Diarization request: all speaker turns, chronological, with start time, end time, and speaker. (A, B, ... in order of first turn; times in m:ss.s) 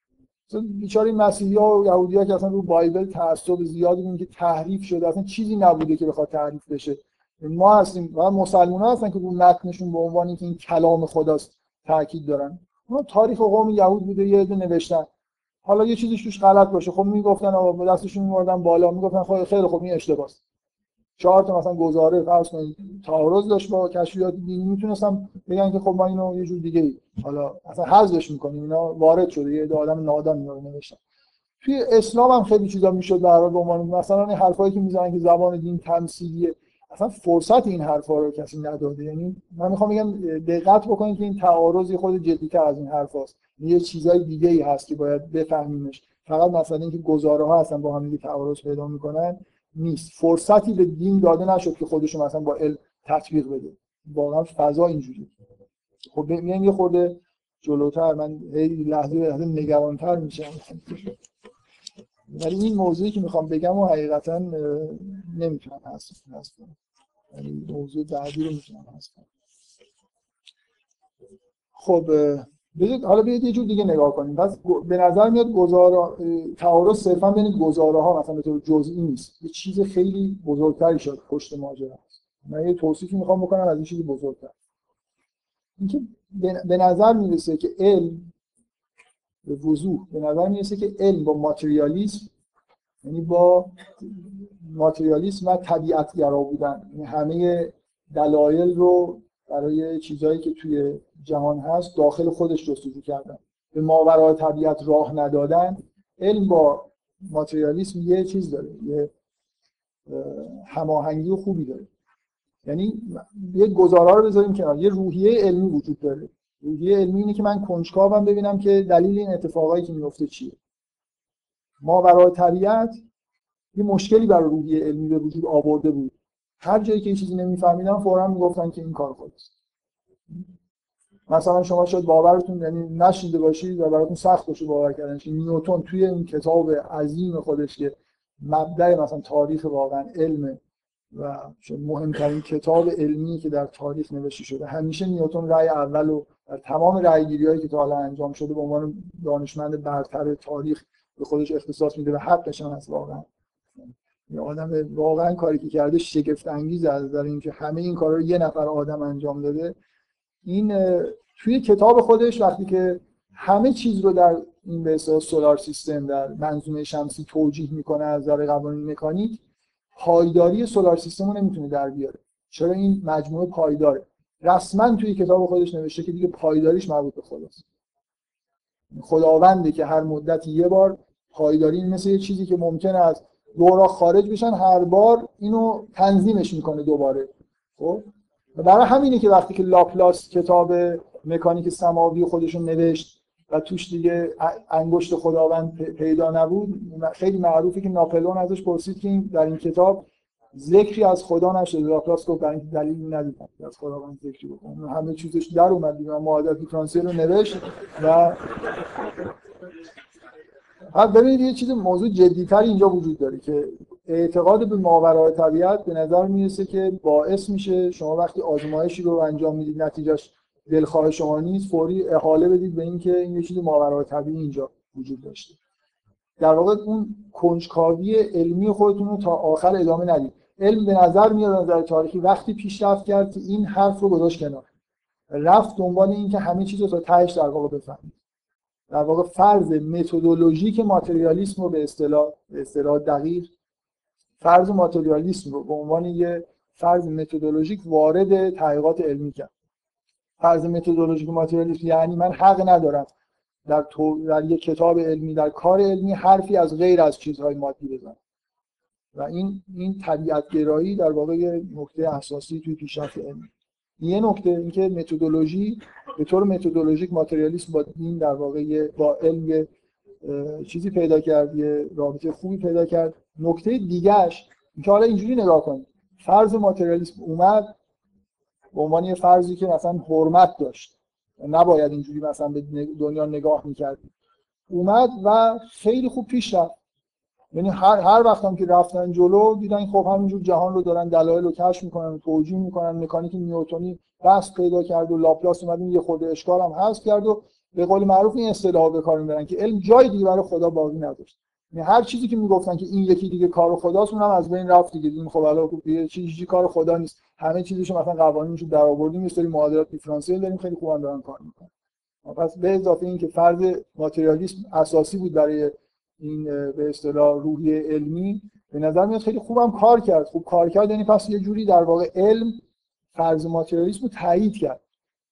0:00.5-0:15.1 A
0:15.6-0:20.4 A
0:21.2-0:31.0 A
0:31.6-0:55.3 A
0:56.1-1:01.1 A
1:02.3-1:06.8 A
1:07.3-1:09.2 A
1:11.8-1:24.5 A
1:25.8-1:28.2 A
1:29.4-1:32.3 A
1:33.0-1:49.1 A
1:50.1-1:51.9 A
1:52.6-2:00.6 A
2:01.8-2:03.0 A
2:03.7-2:09.5 A
2:11.3-2:20.6 A
2:21.1-2:33.3 A
2:34.3-2:39.8 A
2:40.4-2:49.4 A
2:50.0-2:57.6 A
2:58.9-3:08.0 A
3:08.6-3:28.4 A
3:30.9-3:45.6 A
3:46.4-3:54.6 A
3:55.3-3:58.1 A
3:58.9-4:03.5 A
4:04.4-4:09.5 A
4:10.4-4:13.1 A
4:13.7-4:18.2 A
4:19.2-4:23.5 A
4:24.0-4:29.7 A
4:30.2-4:37.7 A
4:38.7-4:44.0 A
4:44.7-4:46.7 A
4:47.5-5:11.7 A
5:12.2-5:22.6 A
5:23.2-5:24.8 A